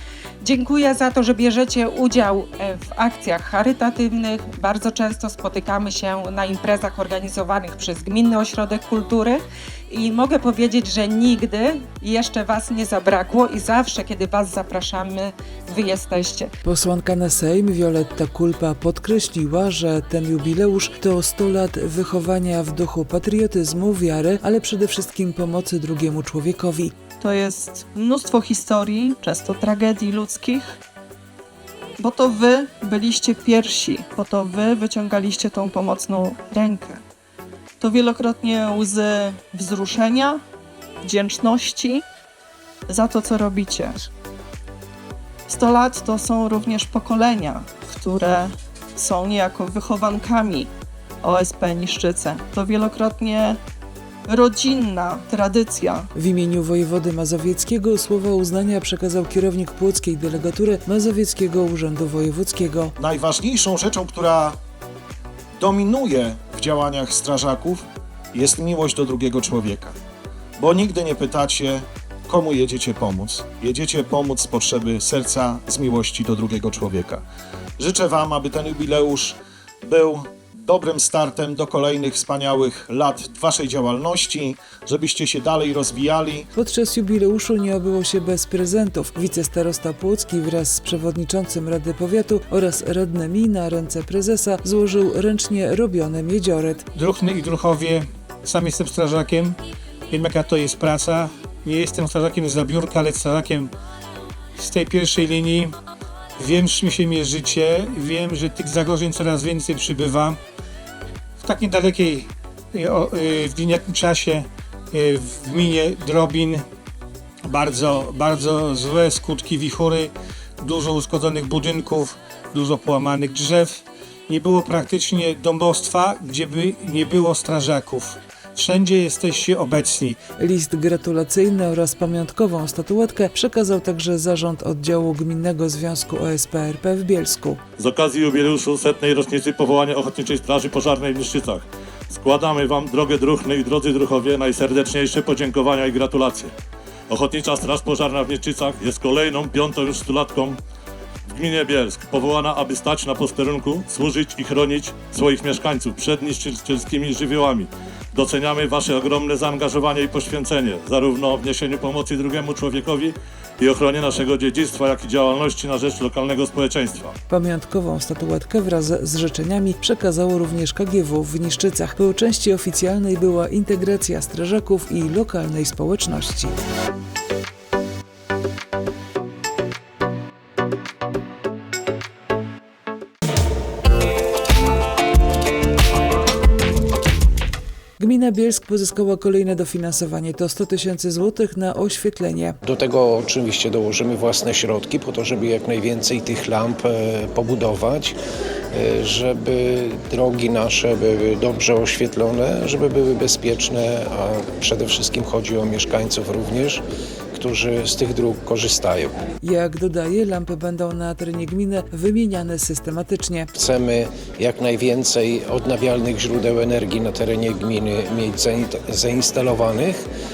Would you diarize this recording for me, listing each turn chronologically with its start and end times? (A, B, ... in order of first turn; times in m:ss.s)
0:00.4-0:16.5 A
0:16.6-0:26.9 B
0:27.2-0:30.8 C
0:32.0-0:37.0 C
0:37.8-0:40.4 C
0:41.0-0:42.0 C
0:42.9-0:44.1 C
0:45.5-0:53.6 C
0:54.3-0:56.1 C
0:56.2-1:02.9 B
1:03.0-1:04.6 D
1:05.6-1:07.8 D
1:08.3-1:10.0 D
1:10.6-1:17.2 D
1:17.8-1:26.5 D
1:26.6-1:36.9 B
1:37.0-1:39.6 E
1:40.1-1:43.7 E
1:44.6-1:45.8 E
1:46.4-1:50.4 E
1:51.4-1:56.7 E
1:57.4-2:10.2 E
2:10.4-2:17.6 B
2:17.8-2:26.5 F
2:27.1-2:30.6 F
2:31.3-2:47.1 F
2:47.3-2:56.6 B
3:08.0-3:12.6 B
3:12.6-3:18.2 G
3:18.7-3:29.2 G
3:29.4-3:33.5 B
3:33.6-3:40.1 G